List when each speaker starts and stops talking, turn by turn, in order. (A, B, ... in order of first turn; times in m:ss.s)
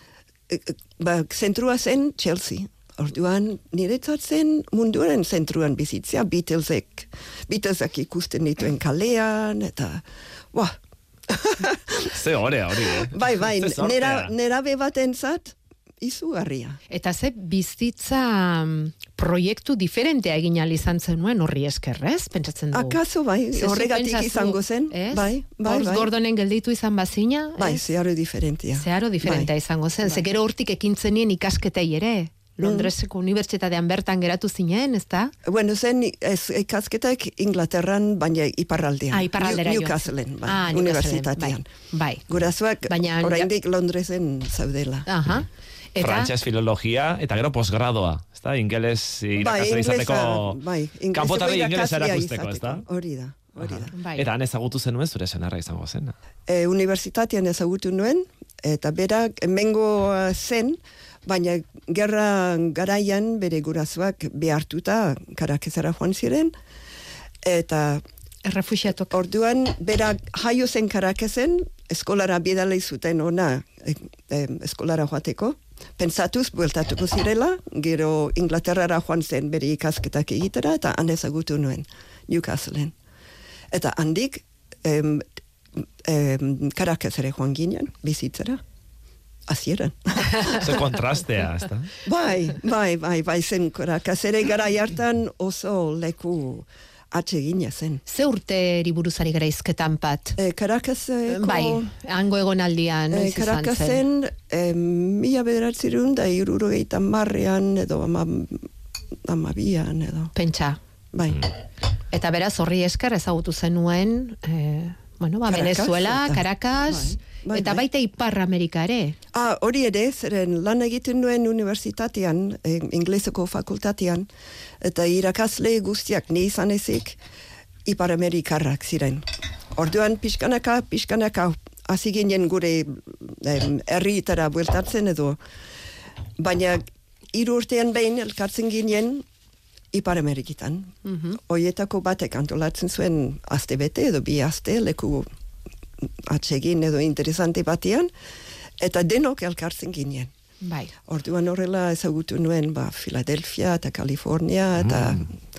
0:00.5-0:10.8 A
0:11.3-0:12.1 A
0:12.0-0:14.3 B
0:13.0-0:16.8 A
0:16.9-0:23.0 C
0:22.7-0:26.1 A
0:23.5-0:27.8 C
0:27.6-0:29.5 A
0:28.8-0:35.3 C
0:32.6-0:32.9 A
0:35.4-0:41.7 A
0:39.1-0:42.3 C
0:42.3-0:45.1 A
0:42.9-0:43.5 C
0:45.1-0:46.3 C
0:46.0-0:50.6 B
0:49.4-0:54.0 A
0:51.1-0:52.8 B
0:53.7-0:56.1 B
0:53.9-0:54.3 C
0:56.5-1:06.5 A
1:07.4-1:08.0 A
1:08.4-1:09.2 C
1:09.1-1:22.9 A
1:23.7-1:25.2 A
1:26.0-1:28.6 A
1:29.5-1:30.8 A
1:30.5-1:31.9 B
1:32.0-1:38.0 A
1:38.1-1:40.4 C
1:40.4-1:41.9 A
1:41.3-1:44.0 C
1:43.1-1:48.7 A
1:49.3-1:50.3 A
1:50.4-1:50.8 C
1:51.1-1:51.5 A
1:52.1-1:59.2 C
1:55.5-1:57.8 A
1:59.3-2:04.3 A
2:04.8-2:07.2 A
2:07.9-2:09.2 A
2:09.8-2:15.4 A
2:16.4-2:16.8 A
2:17.3-2:19.2 A
2:19.9-2:25.3 A
2:21.0-2:21.4 C
2:26.3-2:28.1 A
2:28.8-2:30.3 A
2:30.6-2:30.9 C
2:31.1-2:35.4 A
2:34.9-2:35.2 B